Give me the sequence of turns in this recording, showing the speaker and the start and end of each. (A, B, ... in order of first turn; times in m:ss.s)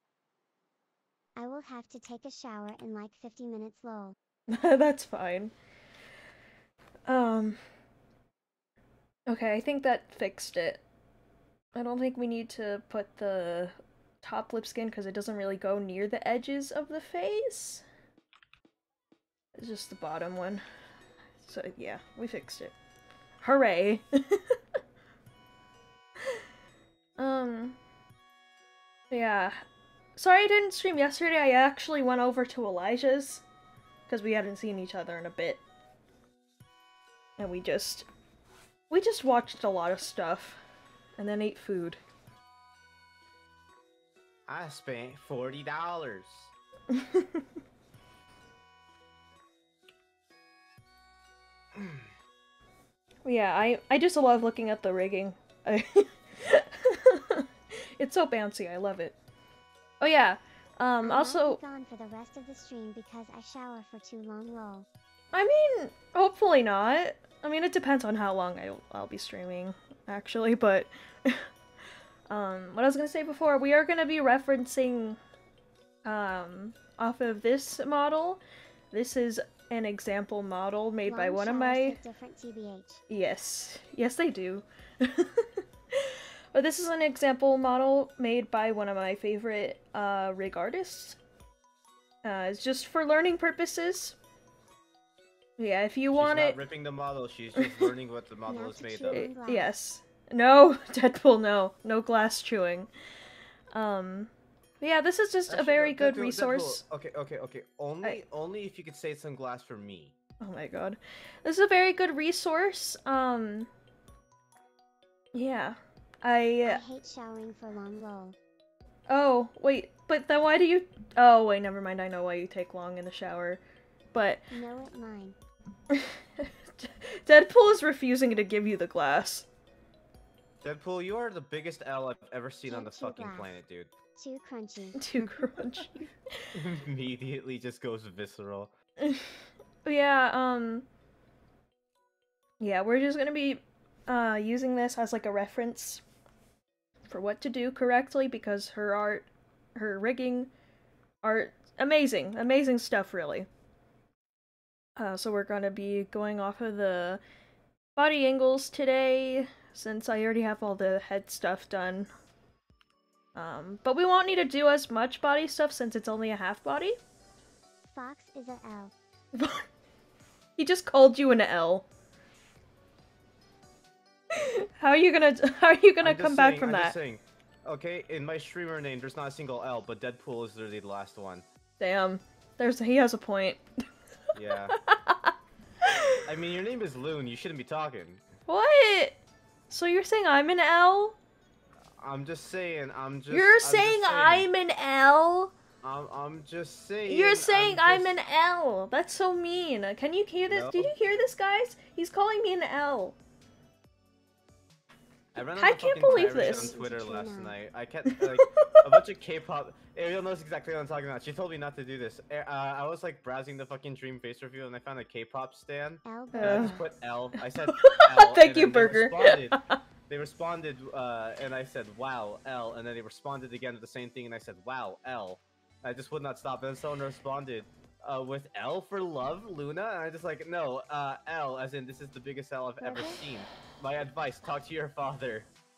0:01.4-0:04.2 A
0:04.5-0:05.5 B
0:07.1-0:07.6 B
0:09.3-0:10.8 B
0:11.7-0:17.8 B
0:19.6-0:20.6 B
0:21.4-0:22.8 B
0:23.4-0:24.6 B
0:27.2-0:27.8 B
0:29.1-0:29.6 B
0:30.2-0:33.4 B
0:34.1-0:35.6 B
0:37.4-0:38.1 B
0:38.9-0:40.6 B
0:41.2-0:42.0 B
0:44.5-0:46.5 C
0:46.9-0:47.4 B
0:51.7-0:52.1 C
0:53.2-0:59.2 B
1:00.0-1:01.6 B
1:01.0-1:04.9 A
1:05.3-1:11.5 B
1:12.3-1:15.2 B
1:16.0-1:18.4 B
1:18.9-1:22.0 B
1:21.0-1:23.0 A
1:23.1-1:31.2 B
1:32.2-1:34.2 B
1:35.6-1:36.6 B
1:36.1-1:39.3 C
1:37.6-1:37.9 B
1:38.5-1:39.7 A
1:39.1-1:42.9 B
1:43.7-1:46.8 B
1:45.5-1:50.2 C
1:50.4-1:53.7 B
1:55.3-1:56.8 B
1:56.7-1:58.4 A
1:59.1-2:03.6 B
2:04.1-2:04.5 B
2:04.5-2:05.4 A
2:05.9-2:09.5 B
2:10.6-2:13.9 C
2:12.7-2:13.5 A
2:14.2-2:15.0 A
2:15.0-2:16.5 B
2:16.5-2:18.7 C
2:19.0-2:20.9 B
2:22.6-2:26.0 B
2:27.1-2:30.5 B
2:31.2-2:33.5 B
2:35.0-2:37.2 B
2:38.0-2:42.1 B
2:43.4-2:47.0 B
2:47.9-2:48.9 A
2:49.3-2:49.7 B
2:50.6-2:51.9 B
2:54.3-2:57.0 B
2:56.0-3:01.5 C
3:01.8-3:03.6 B
3:04.3-3:04.8 C
3:04.7-3:06.2 B
3:06.2-3:08.2 C
3:08.5-3:11.2 B
3:11.8-3:14.5 C
3:13.3-3:15.5 B
3:15.8-3:18.2 C
3:17.1-3:23.2 B
3:20.5-3:20.9 C
3:25.3-3:55.5 C
3:25.6-3:26.8 B
3:26.1-3:27.6 A
3:28.1-3:28.8 B
3:36.0-3:36.8 A
3:36.3-3:36.8 B
3:37.7-3:39.8 B
3:52.8-3:53.2 B